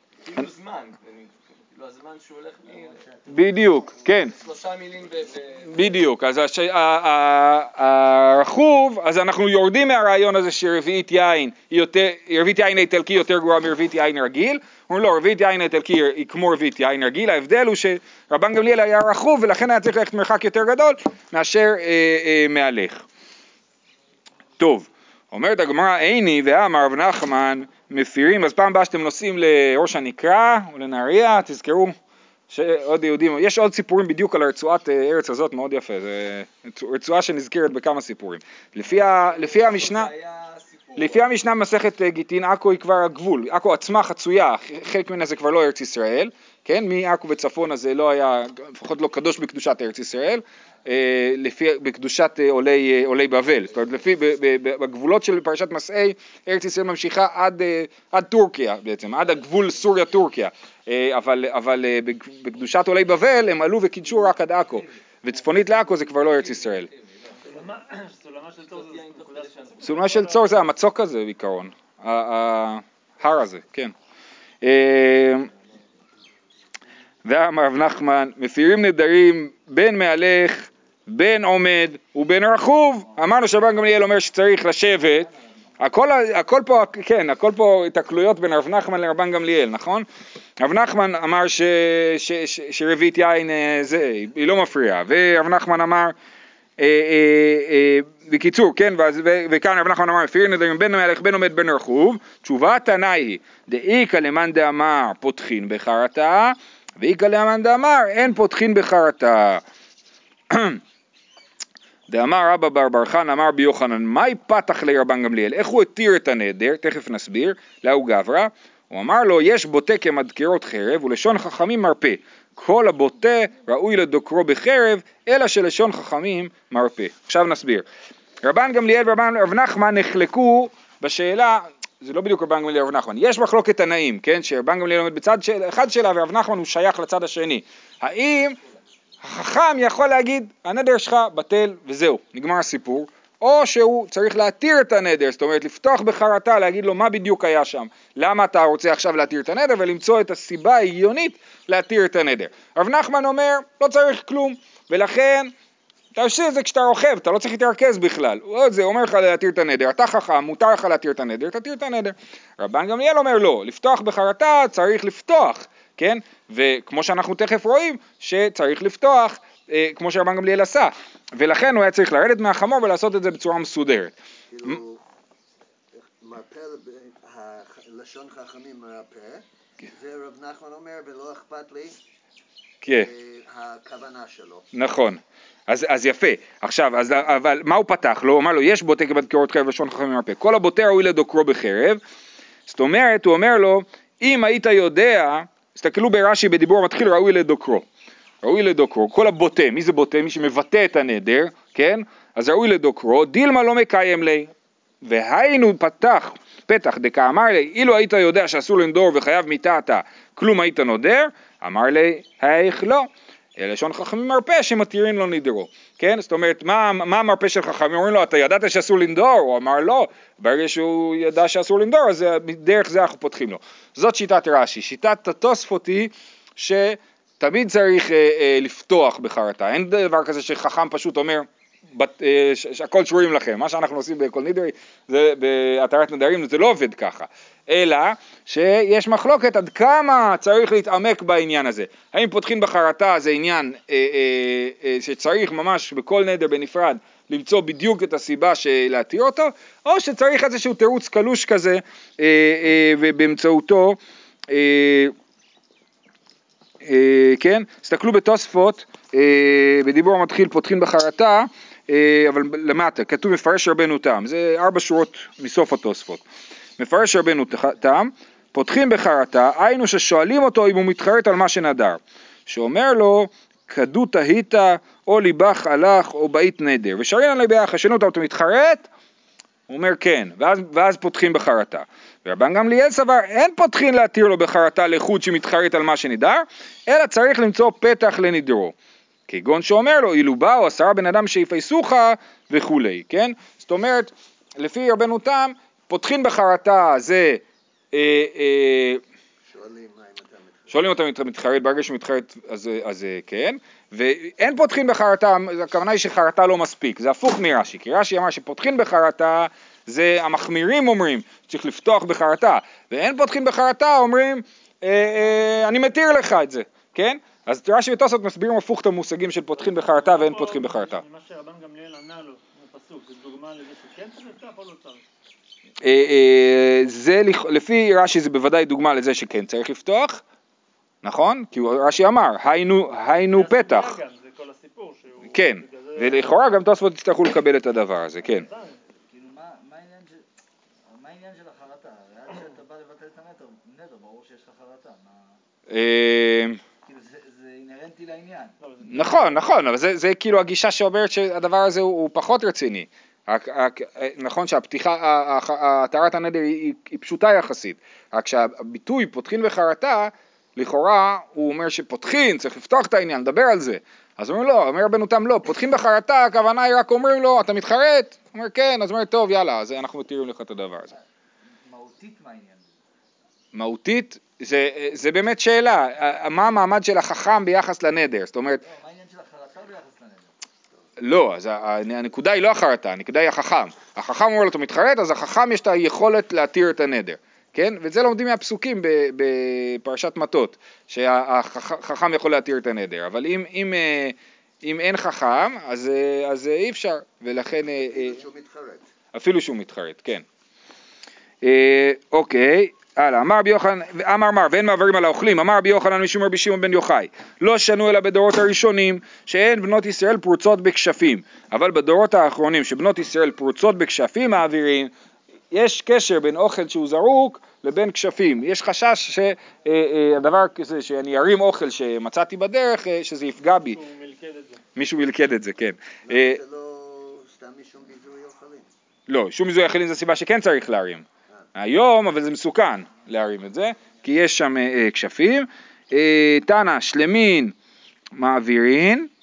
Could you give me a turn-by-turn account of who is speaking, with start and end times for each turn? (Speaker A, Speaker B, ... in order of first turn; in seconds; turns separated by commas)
Speaker A: 0.3-3.0, Speaker B: 2.8-3.7, Speaker C: 3.3-4.3, Speaker A: 4.3-6.0, Speaker C: 5.7-23.0, Speaker C: 24.6-32.0, Speaker C: 32.5-40.1, Speaker A: 38.9-41.3, Speaker C: 41.0-66.9, Speaker A: 66.1-67.7, Speaker D: 67.5-70.4, Speaker A: 68.7-70.3, Speaker C: 69.8-73.9, Speaker C: 74.6-75.5, Speaker C: 77.2-90.1, Speaker C: 90.6-96.2, Speaker C: 96.8-109.6, Speaker C: 110.5-110.8, Speaker C: 112.1-127.8, Speaker C: 128.4-138.6, Speaker C: 139.2-155.5, Speaker C: 156.2-174.8, Speaker E: 174.5-175.0, Speaker E: 175.9-182.0, Speaker C: 182.8-183.1, Speaker E: 182.9-184.7, Speaker C: 184.7-192.0, Speaker C: 192.7-197.8, Speaker C: 198.4-204.5, Speaker C: 205.0-254.0, Speaker C: 254.5-255.1, Speaker C: 256.8-266.2, Speaker C: 266.8-278.9, Speaker C: 279.7-288.8, Speaker C: 289.3-299.0, Speaker E: 299.5-300.9, Speaker C: 300.7-321.0, Speaker D: 319.7-325.0, Speaker C: 325.8-330.2, Speaker C: 331.0-334.0, Speaker D: 333.3-336.3, Speaker C: 335.3-338.5, Speaker D: 338.4-338.8, Speaker B: 339.1-340.2, Speaker B: 340.9-345.4, Speaker C: 345.7-346.6, Speaker B: 346.8-348.6, Speaker D: 348.6-349.1, Speaker C: 348.9-370.9, Speaker B: 371.6-372.7, Speaker C: 373.5-378.6, Speaker B: 378.6-380.3, Speaker C: 381.0-398.2, Speaker E: 397.7-398.9, Speaker C: 399.1-400.2, Speaker C: 401.4-414.9, Speaker C: 415.5-423.8, Speaker D: 423.7-424.6, Speaker C: 424.8-426.4, Speaker E: 426.1-428.7, Speaker C: 429.1-437.6, Speaker C: 438.1-439.1